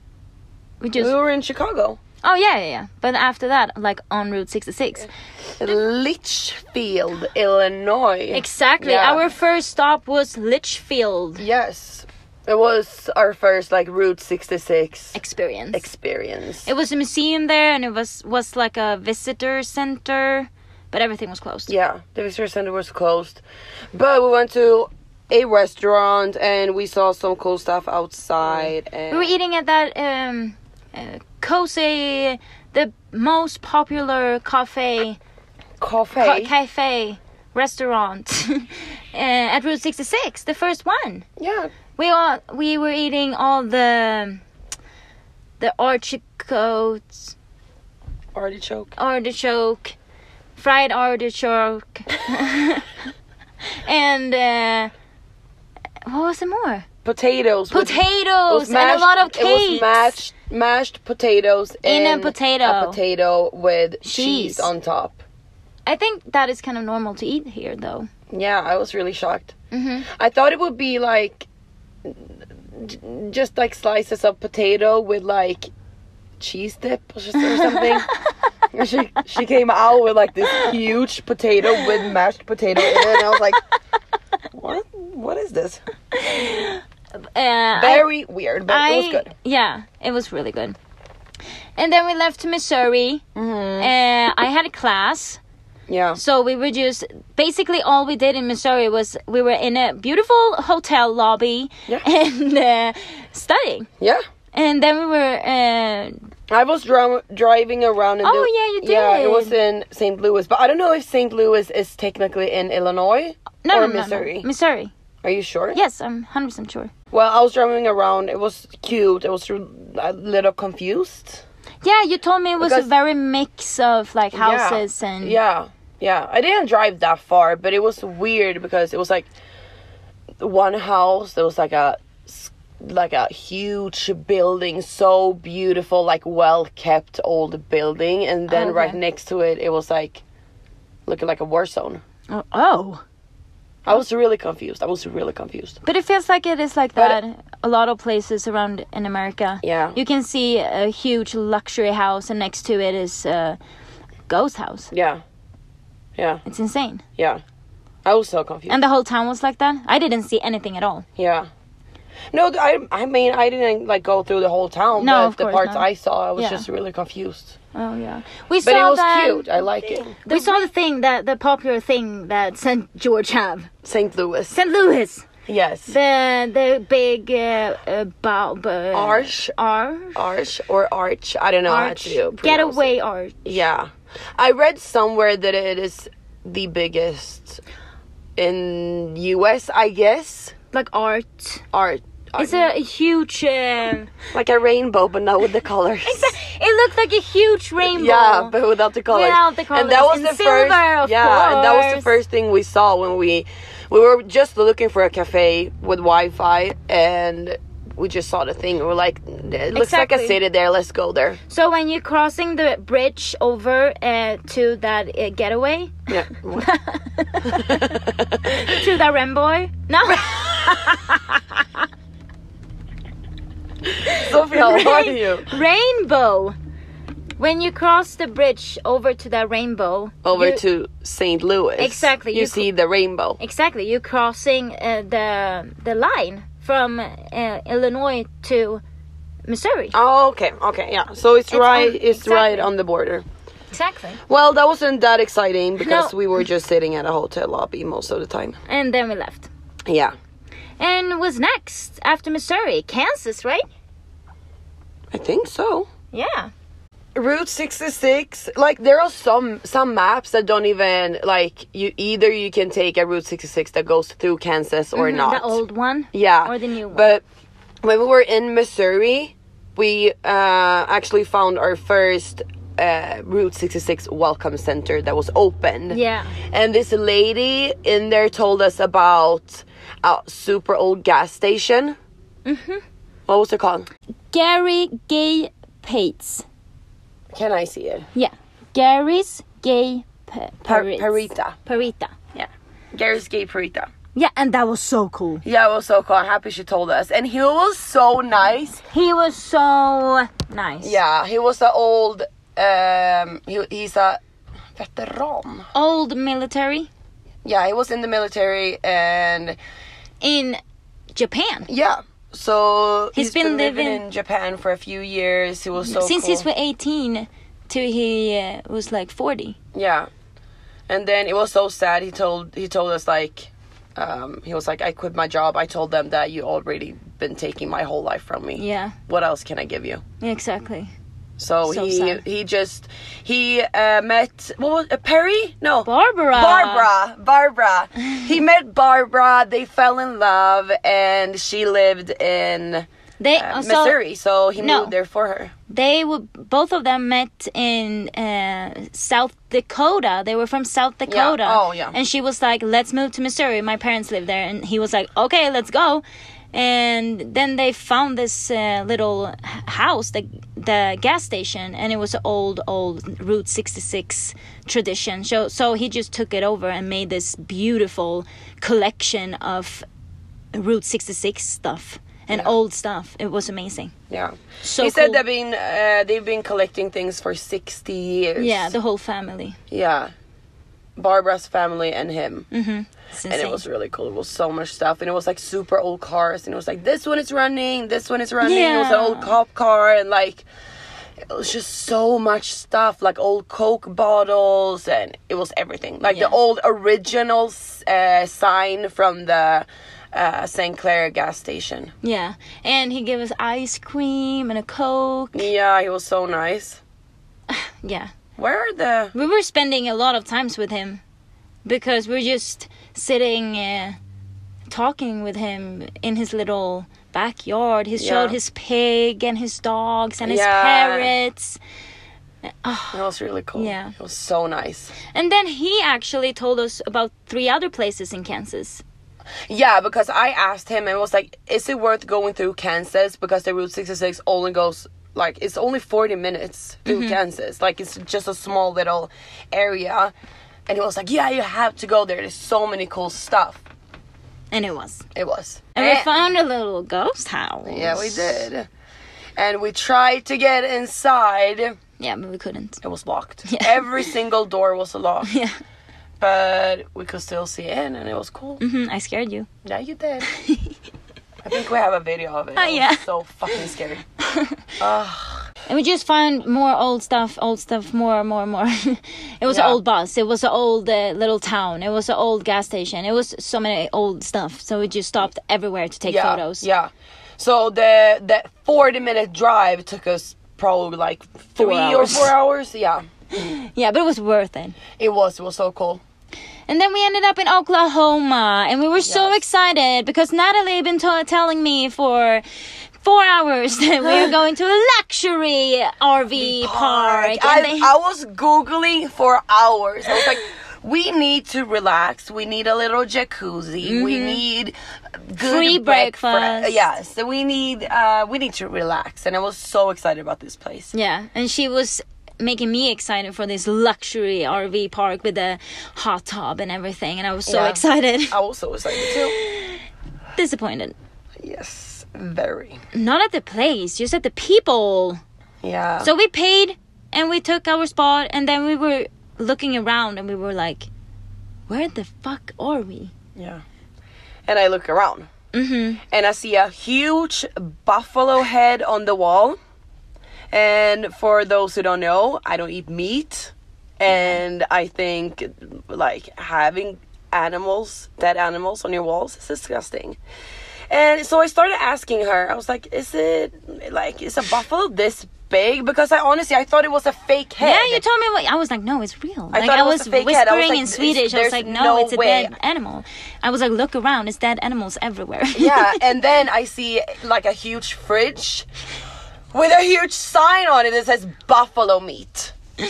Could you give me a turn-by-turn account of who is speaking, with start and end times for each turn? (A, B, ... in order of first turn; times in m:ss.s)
0:00.8-0:01.1 A
0:01.0-0:02.0 B
0:02.2-0:05.1 A
0:05.6-0:09.2 B
0:08.3-0:11.4 A
0:11.4-0:15.2 B
0:15.2-0:15.9 A
0:15.7-0:16.7 B
0:16.6-0:21.7 A
0:21.7-0:23.4 B
0:23.9-0:29.3 B
0:28.5-0:35.2 A
0:35.8-0:36.5 B
0:36.2-0:41.3 A
0:41.4-0:41.7 B
0:42.0-0:44.4 A
0:45.6-0:47.3 A
0:48.4-0:48.9 B
0:49.0-0:50.0 A
0:50.6-0:52.9 A
0:53.8-0:54.9 A
0:56.1-0:56.9 A
0:57.0-1:05.2 B
0:57.7-1:00.2 A
1:01.8-1:03.0 A
1:04.0-1:04.7 A
1:05.9-1:08.1 A
1:08.3-1:09.5 B
1:09.7-1:10.1 A
1:10.1-1:11.5 B
1:12.0-1:15.7 B
1:16.4-1:18.1 B
1:17.4-1:18.0 A
1:18.7-1:23.6 B
1:22.8-1:23.4 A
1:24.5-1:25.8 B
1:26.1-1:26.8 A
1:27.3-1:28.1 A
1:27.8-1:29.3 B
1:28.7-1:30.8 A
1:31.8-1:33.2 A
1:33.4-1:33.9 B
1:33.8-1:35.4 A
1:35.9-1:36.2 B
1:36.2-1:43.9 A
1:44.5-1:46.3 A
1:46.5-1:54.5 B
1:48.2-1:49.6 A
1:53.6-1:54.9 A
1:55.2-1:55.8 B
1:55.7-1:56.9 A
1:57.1-2:01.4 B
2:01.8-2:05.4 A
2:02.6-2:02.9 B
2:04.3-2:09.3 B
2:10.4-2:20.2 B
2:18.5-2:19.0 A
2:21.1-2:22.0 B
2:22.3-2:23.0 A
2:23.8-2:25.8 B
2:25.8-2:33.6 A
2:29.6-2:30.0 B
2:34.3-2:34.9 A
2:34.9-2:35.2 B
2:36.2-2:36.4 B
2:36.4-2:37.0 A
2:38.0-2:38.8 B
2:38.7-2:41.1 A
2:41.2-2:41.5 B
2:42.3-2:47.6 B
2:45.0-2:46.6 A
2:47.7-2:49.5 A
2:48.6-2:50.6 B
2:50.2-2:53.7 A
2:53.8-2:54.6 B
2:54.5-2:55.3 A
2:55.5-2:55.9 B
2:55.9-3:00.2 A
2:58.9-2:59.5 B
3:00.2-3:02.9 B
3:01.7-3:03.4 A
3:03.4-3:07.6 B
3:08.4-3:10.6 B
3:10.7-3:11.6 A
3:11.7-3:12.7 B
3:12.4-3:14.1 A
3:14.3-3:16.4 B
3:16.0-3:18.5 A
3:17.8-3:31.4 B
3:19.1-3:22.1 A
3:29.7-3:30.4 A
3:31.5-3:41.6 A
3:36.1-3:36.7 B
3:37.4-3:38.8 B
3:40.1-3:40.4 B
3:44.0-3:46.6 A
3:44.1-3:45.5 B
3:47.4-3:50.6 A
3:50.2-3:53.4 B
3:51.8-3:52.7 A
3:53.4-3:58.8 A
3:59.5-4:00.0 A
3:59.9-4:03.2 B
4:01.5-4:02.7 A
4:03.7-4:04.2 A
4:04.3-4:08.6 B
4:05.8-4:06.2 A
4:08.7-4:09.5 A
4:09.9-4:10.1 B
4:10.8-4:13.6 A
4:15.1-4:15.9 B
4:16.1-4:16.5 A
4:17.2-4:25.6 B
4:24.9-4:27.1 A
4:26.1-4:27.2 B
4:27.8-4:36.0 B
4:35.9-4:36.4 A
4:36.5-4:42.0 B
4:42.5-4:42.8 A
4:43.3-4:43.9 B
4:44.3-4:46.4 A
4:47.3-4:48.1 B
4:48.2-4:52.2 A
4:50.7-4:51.6 B
4:52.3-4:53.9 B
4:54.2-4:55.4 A
4:55.4-4:58.8 B
4:58.9-5:01.0 A
5:00.8-5:04.2 B
5:04.8-5:05.7 B
5:05.7-5:06.9 A
5:07.4-5:09.6 B
5:10.2-5:10.6 A
5:11.1-5:11.7 A
5:11.7-5:16.5 B
5:13.2-5:14.0 A
5:15.8-5:19.6 A
5:19.8-5:20.1 B
5:20.9-5:30.0 B
5:28.6-5:29.0 A
5:30.2-5:30.9 A
5:31.4-5:45.5 B
5:31.7-5:32.2 A
5:35.8-5:36.9 A
5:43.2-5:44.0 A
5:44.6-5:44.9 A
5:45.7-6:09.8 A
5:51.1-5:52.0 B
6:10.5-6:13.9 A
6:14.1-6:18.7 B
6:14.6-6:15.2 A
6:18.4-6:19.6 A
6:19.7-6:20.1 B
6:21.0-6:22.5 B
6:22.5-6:23.6 A
6:23.3-6:30.5 B
6:28.4-6:29.4 A
6:31.2-6:41.9 B
6:36.1-6:36.4 A
6:42.0-6:45.5 A
6:45.3-6:46.8 B
6:47.5-6:48.1 A
6:48.4-6:49.1 B
6:49.1-6:51.0 A
6:51.6-6:54.0 A
6:54.7-7:01.6 A
6:58.0-6:58.4 B
7:00.2-7:01.1 B
7:02.6-7:03.0 A
7:02.9-7:04.9 B
7:03.6-7:04.0 A
7:05.1-7:08.8 A
7:09.5-7:20.1 B
7:16.9-7:17.2 A
7:20.7-7:23.6 B
7:24.5-7:25.1 A
7:25.2-7:26.2 B
7:25.8-7:28.5 A
7:27.7-7:28.7 B
7:29.4-7:31.8 B
7:32.0-7:32.8 A
7:32.8-7:35.3 B
7:33.5-7:34.0 A
7:35.2-7:35.6 A
7:36.2-7:38.6 B
7:38.6-7:39.5 A
7:39.6-7:40.3 B
7:40.2-7:40.8 A
7:41.4-7:44.0 B
7:42.6-7:43.0 A
7:44.3-7:44.6 A
7:44.8-7:45.5 B
7:45.7-7:56.7 A
7:49.5-7:49.8 B
7:56.1-8:03.0 B
8:01.6-8:02.3 A
8:03.3-8:04.8 A
8:05.0-8:06.0 B
8:06.7-8:12.4 A
8:09.0-8:09.4 B
8:13.0-8:17.9 A
8:14.0-8:14.3 B
8:16.4-8:30.9 B
8:23.8-8:24.4 A
8:25.4-8:26.8 A
8:30.9-8:38.4 A
8:37.5-8:39.3 B
8:38.9-8:39.8 A
8:40.4-8:41.0 A
8:41.4-8:42.8 B
8:42.9-8:45.2 A
8:45.6-8:46.1 B
8:46.0-8:50.9 A
8:51.7-8:53.1 A
8:53.4-8:53.6 B
8:54.5-8:55.3 B
8:55.5-8:56.0 A
8:56.0-8:59.6 B
9:00.5-9:10.2 B
9:04.1-9:04.4 A
9:10.9-9:18.0 B
9:17.6-9:26.0 A
9:19.5-9:22.5 B
9:25.5-9:28.7 B
9:29.5-9:32.5 B